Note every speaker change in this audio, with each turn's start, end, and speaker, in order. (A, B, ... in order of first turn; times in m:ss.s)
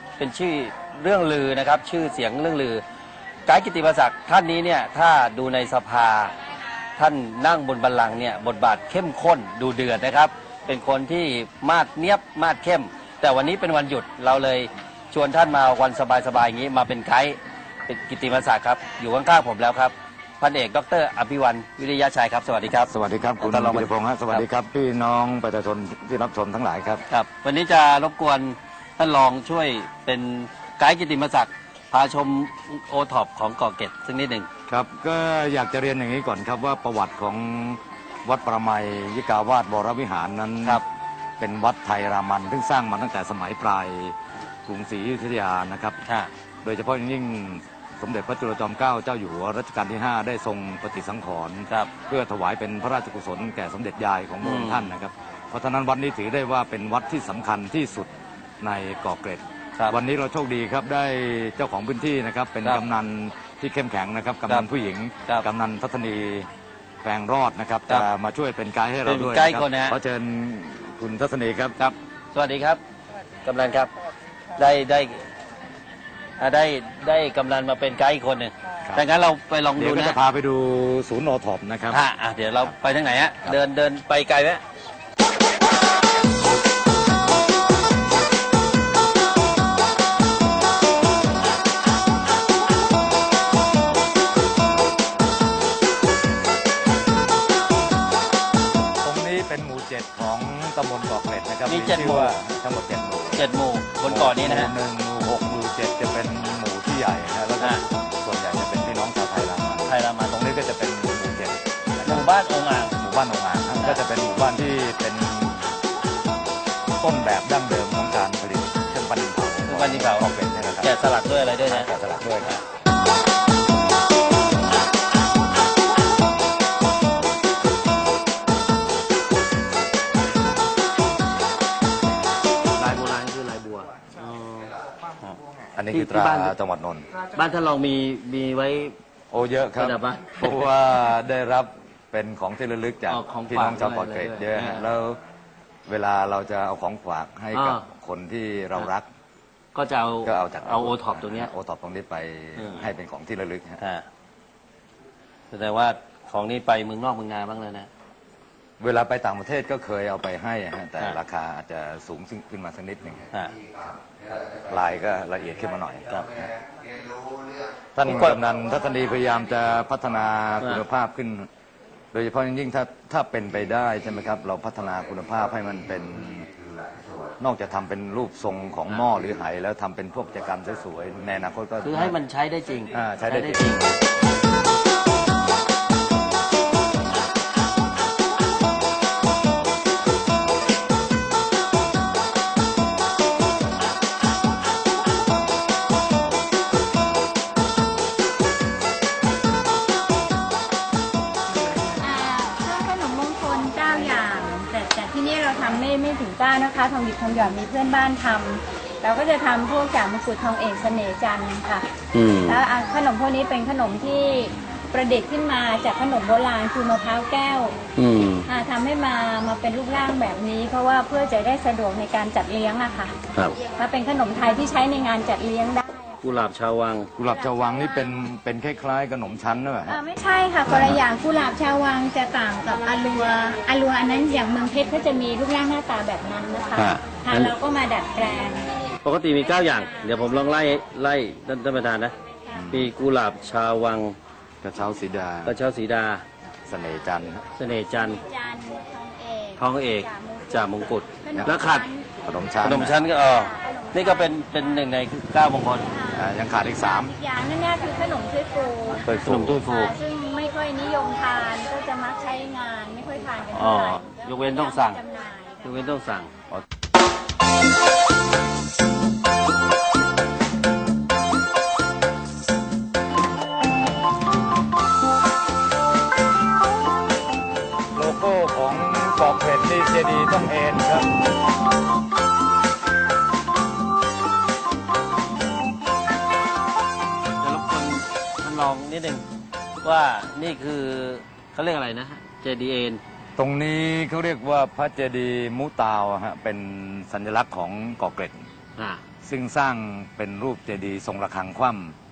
0:00.2-0:02.8 A
0:03.5-0:06.3 A
0:07.0-0:24.4 A
0:22.7-0:27.0 B
0:27.1-0:34.5 A
0:34.7-0:40.8 B
0:41.4-0:46.0 B
0:46.0-0:46.3 A
0:46.6-1:06.5 B
0:54.4-0:54.9 A
1:07.0-1:11.8 B
1:09.0-1:10.0 A
1:11.8-1:12.8 A
1:13.4-1:13.9 A
1:14.6-1:15.3 A
1:16.4-1:20.2 A
1:19.8-1:22.0 B
1:21.9-1:24.6 A
1:39.0-1:43.5 B
1:41.7-1:42.4 A
1:43.3-1:44.7 A
1:44.0-1:52.3 B
1:47.6-1:47.8 A
1:49.9-1:50.5 A
1:52.0-1:53.0 A
1:52.9-1:55.6 B
1:57.0-2:02.6 B
1:59.7-2:00.3 A
2:00.8-2:01.9 A
2:12.7-2:15.4 A
2:15.8-2:17.1 B
2:15.9-2:16.5 A
2:17.3-2:19.0 A
2:19.3-2:25.2 B
2:19.8-2:20.7 A
2:23.1-2:24.9 A
2:25.9-2:29.1 B
2:27.5-2:27.8 A
2:29.8-2:31.5 A
2:30.2-2:33.8 B
2:32.6-2:32.9 A
2:33.8-2:34.1 A
2:35.5-2:37.9 A
2:38.8-2:46.3 B
2:46.1-2:46.5 A
2:47.4-2:51.5 B
2:48.0-2:48.4 A
2:52.1-2:56.5 B
2:57.4-3:02.2 B
3:01.8-3:04.0 A
3:02.9-3:03.9 B
3:22.0-3:31.9 C
3:32.1-3:32.6 A
3:32.4-3:37.8 C
3:38.0-3:38.5 A
3:38.5-3:46.2 C
3:46.2-3:47.1 A
3:47.2-3:50.0 B
3:47.3-3:48.1 C
3:49.9-3:58.7 C
3:50.7-3:51.0 B
3:56.8-3:57.5 A
3:59.0-4:02.1 A
4:02.5-4:02.9 B
4:02.7-4:04.2 A
4:04.6-4:05.6 B
4:05.4-4:06.2 A
4:06.7-4:07.4 B
4:07.6-4:08.2 A
4:08.0-4:10.6 C
4:09.6-4:11.9 A
4:11.2-4:12.1 C
4:11.3-4:11.6 B
4:12.2-4:13.0 B
4:12.6-4:15.9 A
4:13.1-4:14.6 C
4:15.7-4:19.1 C
4:16.1-4:17.1 B
4:19.0-4:19.6 B
4:19.2-4:20.0 A
4:19.6-4:25.8 C
4:23.5-4:25.0 A
4:25.6-4:26.3 A
4:38.0-4:41.1 B
4:47.4-4:49.2 A
4:49.8-4:53.0 A
4:53.4-4:58.4 B
4:58.8-4:59.0 A
4:59.2-5:02.0 B